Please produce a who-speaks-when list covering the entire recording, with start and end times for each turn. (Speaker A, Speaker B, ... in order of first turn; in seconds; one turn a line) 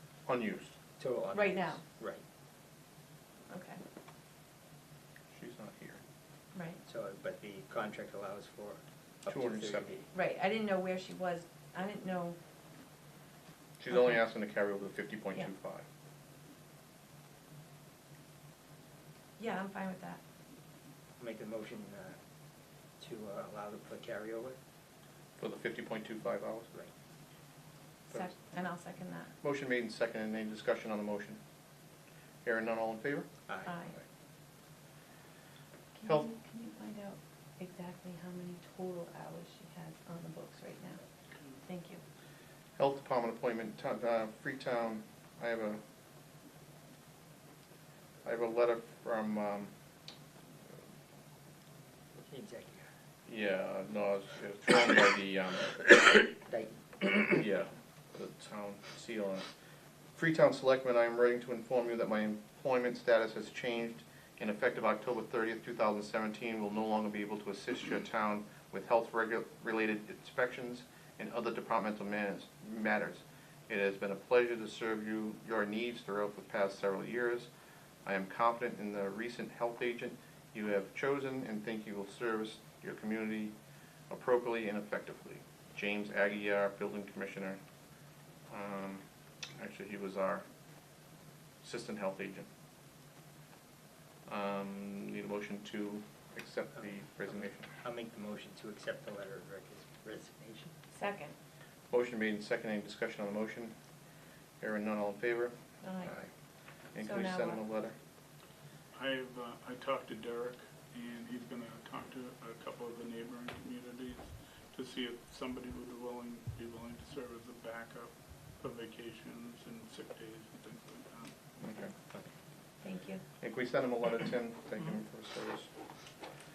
Speaker A: 0.2-0.8
Speaker B: 1.0-2.2
Speaker C: 1.3-1.8
Speaker C: 3.5-3.8
Speaker A: 5.3-6.0
Speaker C: 6.5-6.8
Speaker B: 6.8-10.1
Speaker A: 9.3-9.9
Speaker C: 10.1-12.4
Speaker A: 13.8-15.8
Speaker C: 13.9-14.2
Speaker C: 19.4-20.2
Speaker B: 21.2-22.1
Speaker B: 23.0-24.6
Speaker A: 25.4-26.7
Speaker C: 28.1-29.3
Speaker A: 29.4-31.4
Speaker A: 32.4-33.3
Speaker B: 33.5-33.7
Speaker C: 33.6-34.0
Speaker C: 36.0-41.0
Speaker C: 41.6-42.0
Speaker A: 42.8-45.8
Speaker A: 48.2-49.7
Speaker B: 52.2-52.9
Speaker A: 53.3-55.8
Speaker B: 56.5-57.1
Speaker A: 57.3-59.4
Speaker A: 60.1-77.5
Speaker A: 78.0-83.5
Speaker A: 84.1-87.6
Speaker A: 88.5-89.0
Speaker A: 89.6-90.4
Speaker A: 91.6-92.5
Speaker A: 94.3-97.7
Speaker B: 97.8-100.7
Speaker C: 100.9-101.3
Speaker A: 101.9-103.7
Speaker A: 104.6-105.5
Speaker C: 105.8-106.1
Speaker A: 106.9-107.9
Speaker C: 107.0-107.6
Speaker D: 108.9-121.3
Speaker A: 121.6-121.9
Speaker C: 122.8-123.2
Speaker A: 123.4-125.7